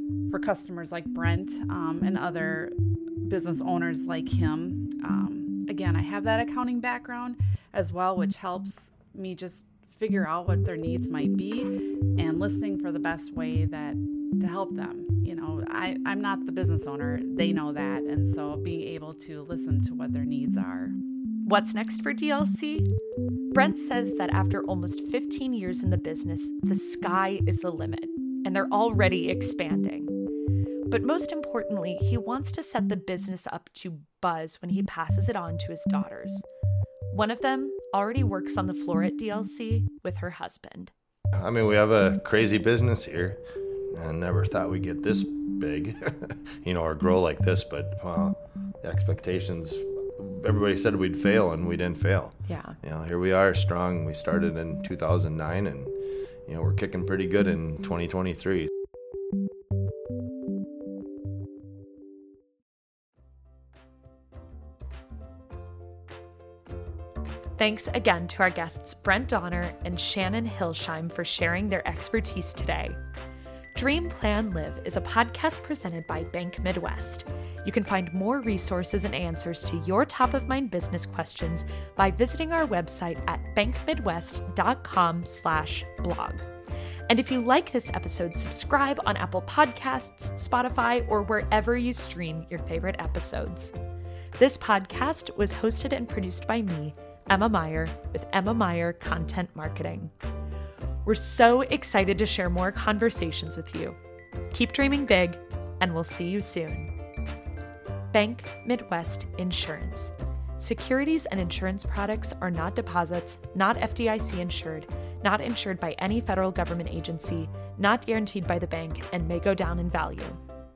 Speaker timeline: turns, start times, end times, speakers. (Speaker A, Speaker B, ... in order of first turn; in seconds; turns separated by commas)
Speaker A: 0.3-21.0, Speaker B: 21.4-22.9, Speaker B: 23.5-30.1, Speaker B: 30.9-36.5, Speaker B: 37.1-40.9, Speaker C: 41.4-43.4, Speaker C: 43.9-55.9, Speaker B: 52.5-52.8, Speaker C: 56.5-58.7, Speaker B: 67.6-73.0, Speaker B: 73.8-86.5, Speaker B: 87.1-93.7, Speaker B: 94.4-100.1, Speaker B: 101.0-104.0, Speaker B: 104.5-106.9, Speaker B: 108.1-120.4